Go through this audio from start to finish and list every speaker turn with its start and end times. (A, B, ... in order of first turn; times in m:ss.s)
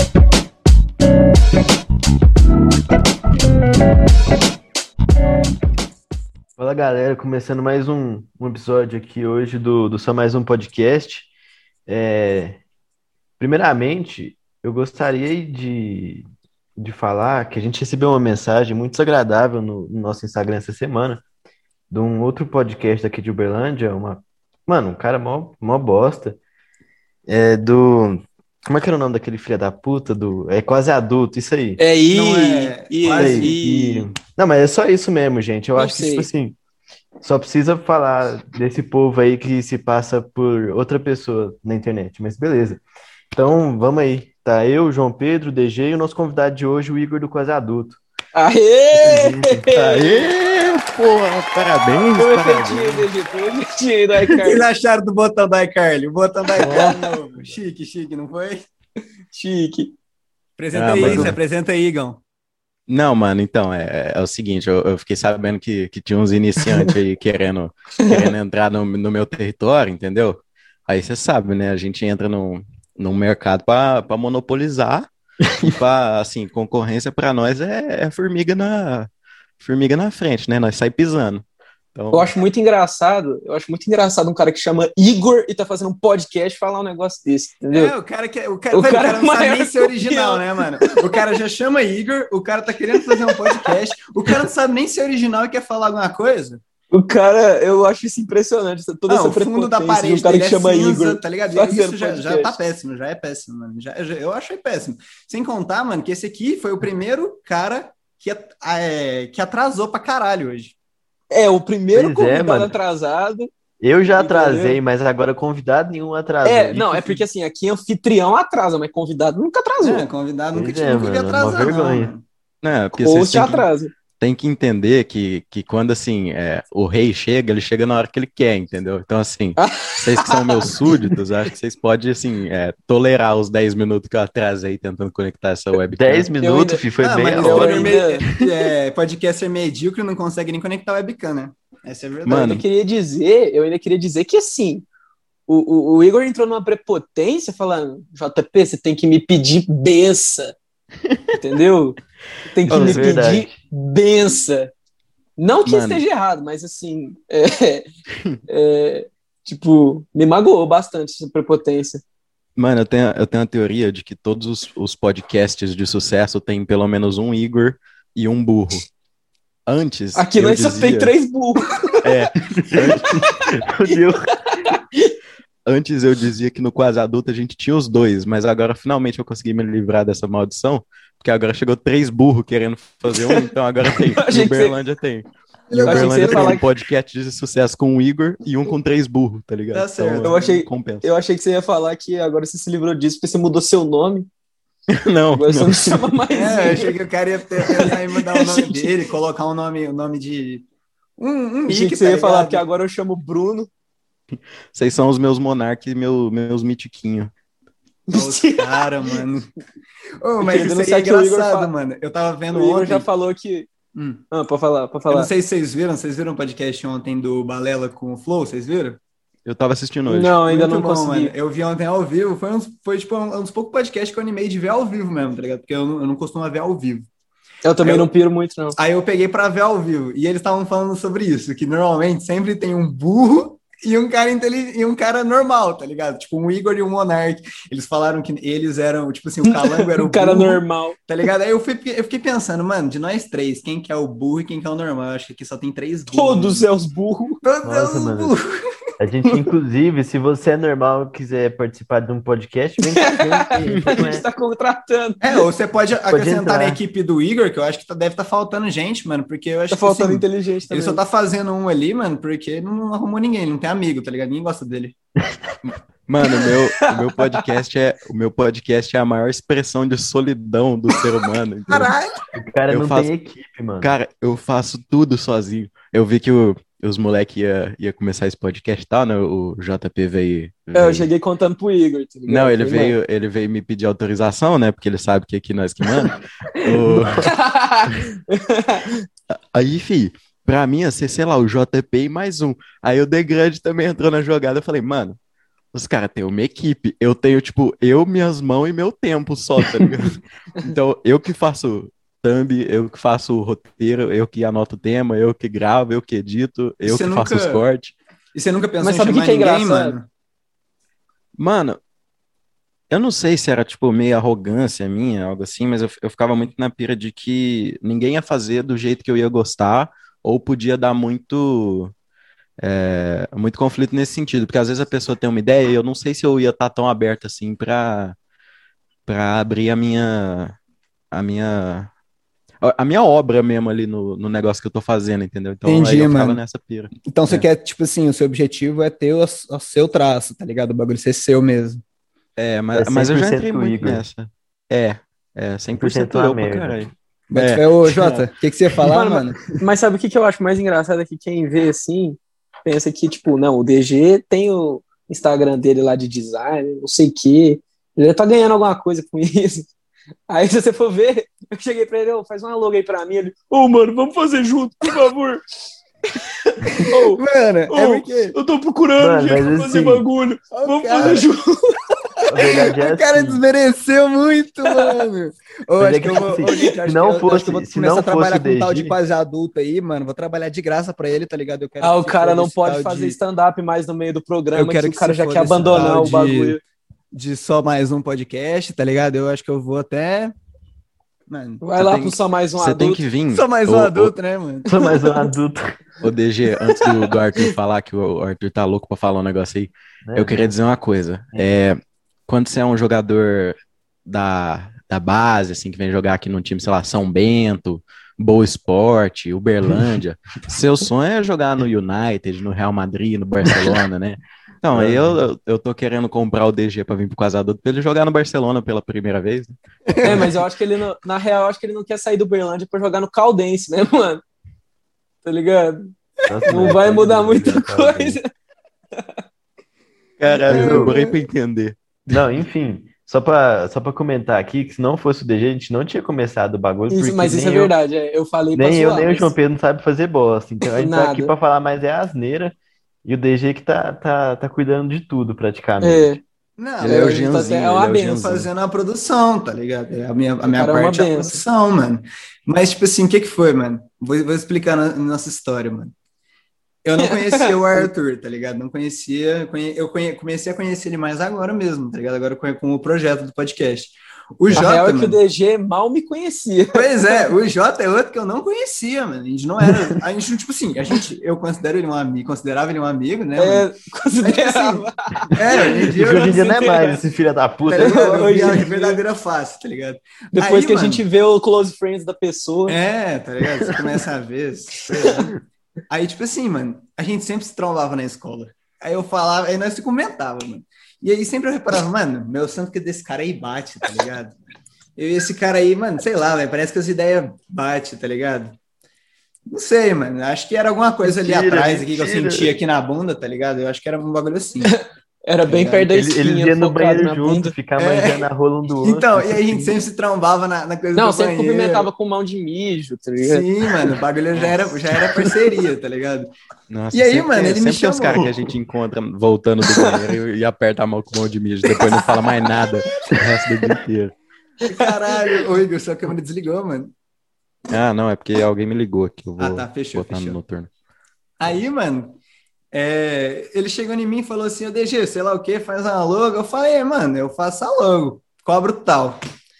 0:06.6-0:11.3 A
0:11.9-0:12.6 A
0:13.4-0:16.2 A
0:16.8-0:21.2 A
0:21.9-0:26.4 A
0:27.3-0:31.8 A
0:31.8-0:34.1 B
0:32.1-0:33.6 C
0:33.1-0:36.6 A
0:35.8-0:36.3 B
0:37.2-0:42.8 A
0:43.3-0:48.0 A
0:48.3-0:50.3 B
0:48.9-0:49.7 A
0:49.7-0:53.1 D
0:52.2-0:54.6 B
0:54.4-0:58.6 C
0:56.6-0:57.1 B
0:59.3-0:59.9 B
1:00.6-1:02.2 C
1:00.7-1:01.4 D
1:01.0-1:01.3 A
1:02.9-1:15.1 D
1:08.0-1:08.3 B
1:15.6-1:19.1 D
1:19.6-1:21.4 D
1:21.9-1:22.3 D
1:22.1-1:27.9 B
1:27.7-1:36.6 C
1:28.7-1:31.2 B
1:33.0-1:33.8 B
1:36.9-1:42.6 B
1:39.1-1:50.7 C
1:51.3-1:53.5 B
1:51.9-1:52.7 A
1:53.8-1:57.2 A
1:54.2-1:54.8 B
1:56.4-2:00.0 B
1:59.8-2:02.2 C
2:00.5-2:02.1 A
2:02.6-2:16.3 D
2:03.0-2:03.9 B
2:09.6-2:10.7 B
2:16.0-2:18.5 A
2:16.4-2:18.2 B
2:17.0-2:22.6 C
2:22.2-2:22.6 D
2:22.4-2:24.8 B
2:25.5-2:30.5 B
2:31.4-2:34.7 B
2:32.7-2:33.1 D
2:32.7-2:33.5 A
2:35.4-2:37.9 B
2:35.6-2:36.0 D
2:38.5-2:42.0 B
2:42.6-2:48.8 D
2:49.7-2:51.1 D
2:50.1-2:52.0 B
2:52.0-2:53.3 D
2:52.5-2:54.3 A
2:53.0-2:55.1 B
2:55.6-3:11.1 D
3:03.1-3:03.5 B
3:04.1-3:04.8 B
3:05.7-3:06.6 C
3:05.8-3:06.7 B
3:09.7-3:10.4 C
3:10.2-3:14.3 B
3:14.9-3:16.0 D
3:15.3-3:17.0 B
3:16.3-3:20.6 C
3:17.6-3:18.9 B
3:21.2-3:22.6 C
3:21.7-3:23.7 B
3:24.7-3:27.3 D
3:28.1-3:29.2 B
3:28.1-3:29.5 C
3:30.2-3:33.0 C
3:30.4-3:31.7 B
3:32.5-3:33.7 B
3:33.9-3:34.2 C
3:34.3-3:35.3 B
3:35.1-3:39.0 C
3:39.4-3:40.4 D
3:40.1-3:41.3 B
3:40.4-3:47.1 C
3:47.6-3:48.8 B
3:47.8-3:48.1 C
3:48.7-4:06.6 C
3:59.4-4:01.0 B
4:06.1-4:07.4 B
4:07.4-4:08.6 C
4:07.6-4:08.3 A
4:09.0-4:14.2 A
4:13.0-4:15.4 B
4:15.2-4:24.9 C
4:16.1-4:16.8 A
4:19.7-4:21.0 B
4:25.6-4:31.9 D
4:26.4-4:27.4 B
4:31.7-4:32.2 C
4:32.3-4:33.9 A
4:32.7-4:33.1 D
4:33.8-4:41.1 D
4:40.7-4:43.0 B
4:42.3-4:47.4 D
4:46.9-4:47.2 A
4:47.1-4:49.0 B
4:49.5-4:55.2 D
4:55.7-5:07.9 D
5:06.8-5:07.6 C
5:08.3-5:10.1 C
5:08.8-5:10.0 B
5:11.4-5:11.8 D
5:12.9-5:21.9 D
5:22.6-5:28.1 D
5:29.0-5:30.6 D
5:31.1-5:31.9 D
5:32.6-5:37.5 D
5:35.6-5:36.4 C
5:37.1-5:41.8 C
5:42.4-5:48.2 D
5:42.7-5:44.0 A
5:45.8-5:46.9 A
5:47.3-5:49.4 C
5:48.8-5:59.7 B
6:00.3-6:05.4 B
6:06.2-6:12.2 B
6:06.8-6:08.3 C
6:09.0-6:10.0 A
6:10.5-6:11.2 C
6:12.3-6:13.4 A
6:12.5-6:23.2 C
6:14.6-6:15.0 B
6:15.8-6:19.0 A
6:21.8-6:26.6 B
6:24.5-6:26.6 C
6:27.1-6:30.3 C
6:31.3-6:31.6 C
6:31.6-6:33.0 B
6:31.8-6:34.1 D
6:33.3-6:34.7 C
6:34.6-6:35.8 A
6:36.0-6:59.5 D
6:36.7-6:37.4 B
6:40.0-6:40.5 A
6:54.7-6:55.2 A
6:59.9-7:00.3 C
7:00.0-7:04.2 B
7:05.2-7:05.9 B
7:06.3-7:08.2 A
7:06.4-7:08.2 B
7:10.2-7:11.8 D
7:10.5-7:11.0 A
7:10.5-7:11.1 B
7:12.1-7:17.7 A
7:16.9-7:19.3 B
7:18.5-7:26.2 A
7:20.8-7:21.3 B
7:25.8-7:26.2 B
7:26.6-7:27.3 C
7:26.8-7:28.5 D
7:26.8-7:28.3 B
7:28.2-7:35.9 C
7:30.4-7:31.4 B
7:36.8-7:45.2 C
7:37.0-7:37.9 B
7:44.5-7:47.2 B
7:46.7-7:53.7 C
7:53.4-7:57.0 B
7:54.2-7:56.8 C
7:55.6-7:58.7 A
7:57.6-8:01.0 C
7:57.8-7:59.0 B
8:00.3-8:02.8 B
8:02.7-8:05.3 C
8:03.6-8:03.9 A
8:04.9-8:05.3 B
8:05.9-8:14.4 C
8:15.0-8:18.6 C
8:19.5-8:24.7 C
8:21.0-8:22.6 A
8:24.6-8:27.5 B
8:25.5-8:29.8 A
8:27.8-8:28.2 C
8:28.8-8:31.9 C
8:31.0-8:33.4 B
8:33.2-8:36.3 C
8:36.7-8:44.1 D
8:36.9-8:38.4 C
8:39.7-8:40.0 B
8:44.6-8:46.9 C
8:44.7-8:45.4 B
8:47.7-8:50.7 D
8:49.4-8:50.4 C
8:51.4-8:52.2 C
8:52.7-8:59.2 C